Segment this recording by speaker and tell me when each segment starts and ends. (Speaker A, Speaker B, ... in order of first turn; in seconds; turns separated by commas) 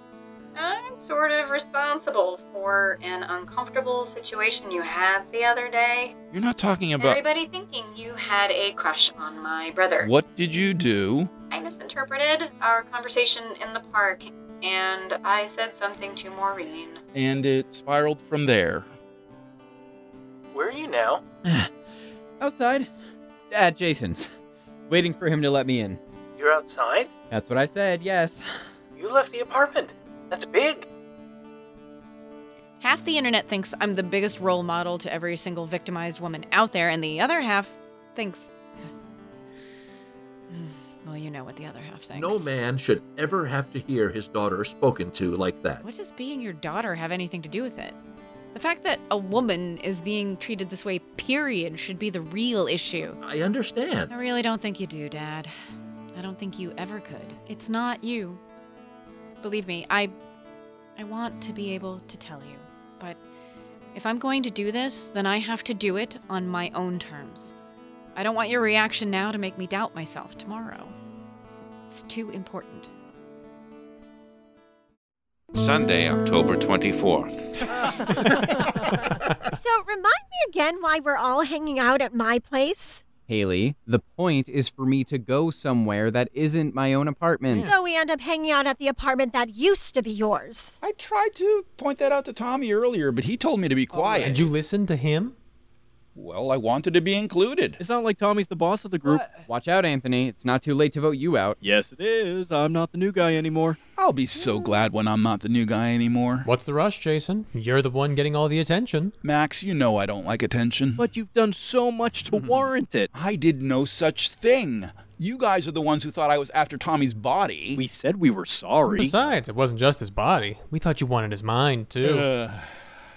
Speaker A: 0.6-6.1, Speaker B: 6.3-7.2, Speaker A: 7.0-10.1, Speaker B: 10.0-11.3, Speaker A: 11.5-17.0, Speaker B: 17.1-18.9, Speaker C: 20.5-21.2, Speaker D: 22.4-22.9, Speaker D: 23.5-24.3, Speaker D: 24.9-26.0, Speaker C: 26.4-27.1, Speaker D: 27.3-28.5, Speaker C: 29.0-30.8, Speaker E: 32.8-38.5, Speaker E: 40.5-42.5, Speaker F: 42.1-45.9, Speaker E: 45.9-48.0, Speaker E: 48.5-53.2, Speaker F: 53.2-54.3, Speaker E: 54.1-55.5, Speaker E: 56.1-58.4, Speaker E: 59.4-60.1, Speaker E: 61.0-63.2, Speaker E: 63.9-67.5, Speaker E: 68.1-70.9, Speaker E: 71.9-72.9, Speaker G: 75.5-77.5, Speaker H: 78.2-78.6, Speaker H: 79.2-83.0, Speaker D: 83.3-87.7, Speaker H: 87.6-90.8, Speaker B: 90.8-94.5, Speaker D: 93.9-94.5, Speaker I: 94.2-95.3, Speaker B: 96.2-97.8, Speaker J: 97.8-99.2, Speaker D: 99.4-101.6, Speaker J: 101.6-103.8, Speaker B: 104.0-106.5, Speaker I: 106.4-109.1, Speaker B: 109.2-111.0, Speaker J: 111.0-113.1, Speaker D: 112.3-112.7, Speaker B: 113.1-117.8, Speaker J: 117.7-119.1, Speaker I: 118.9-122.3, Speaker B: 122.0-122.7